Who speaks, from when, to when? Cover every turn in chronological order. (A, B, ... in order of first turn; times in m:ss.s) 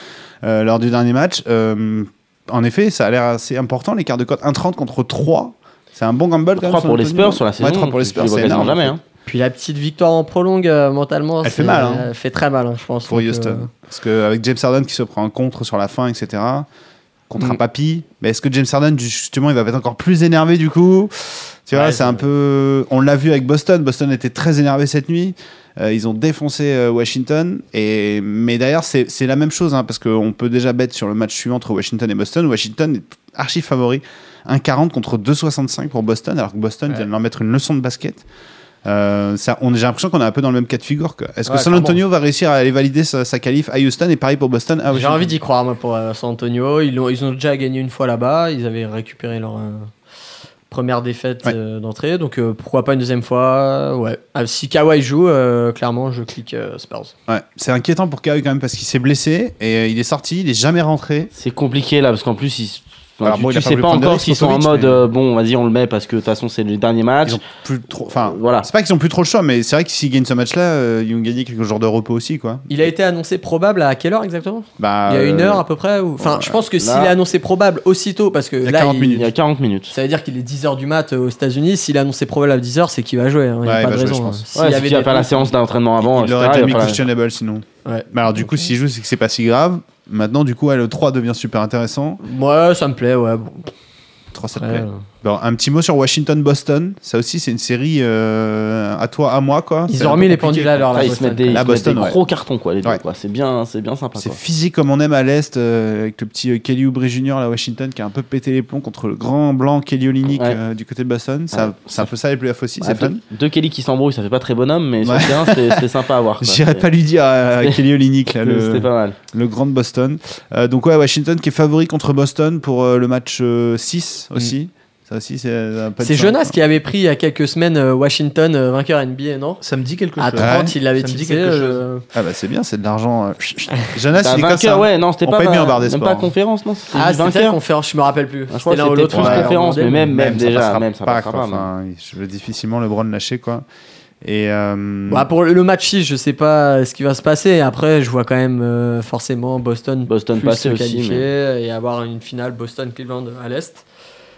0:00.4-0:09.0 A
0:06.6-0:09.0 B
0:09.2-0:13.7 C
0:11.4-0:12.1 A
0:13.1-0:16.7 A
0:17.3-0:38.2 A
0:21.7-0:22.2 C
0:38.8-0:45.4 A
0:41.4-0:42.0 C
0:44.9-0:49.9 C
0:50.7-0:57.1 C
0:57.3-1:01.3 A
1:01.3-1:07.4 B
1:03.2-1:05.0 A
1:07.2-1:12.9 A
1:08.1-1:08.7 B
1:12.7-1:19.2 C
1:14.8-1:15.6 A
1:16.2-1:16.6 A
1:16.8-1:17.1 B
1:18.6-1:19.3 A
1:19.1-1:19.9 B
1:19.9-1:25.5 C
1:23.6-1:24.4 A
1:24.5-1:27.0 B
1:26.0-1:32.2 A
1:27.8-1:28.7 C
1:32.2-1:33.7 C
1:34.3-1:42.2 A
1:34.6-1:35.0 C
1:39.9-1:41.7 C
1:40.9-1:44.4 B
1:44.2-1:53.2 A
1:50.3-1:50.6 B
1:51.5-1:52.1 B
1:52.8-1:56.9 B
1:55.0-1:55.8 A
1:56.4-2:06.6 A
1:58.4-1:59.2 B
2:06.0-2:09.6 C
2:09.6-2:11.8 D
2:10.2-2:12.0 C
2:10.4-2:10.7 A
2:12.1-2:16.3 A
2:14.2-2:17.6 B
2:16.9-2:20.1 C
2:18.5-2:21.6 B
2:19.1-2:19.5 A
2:20.0-2:23.6 A
2:24.2-2:25.3 A
2:25.1-2:33.8 C
2:30.1-2:31.2 B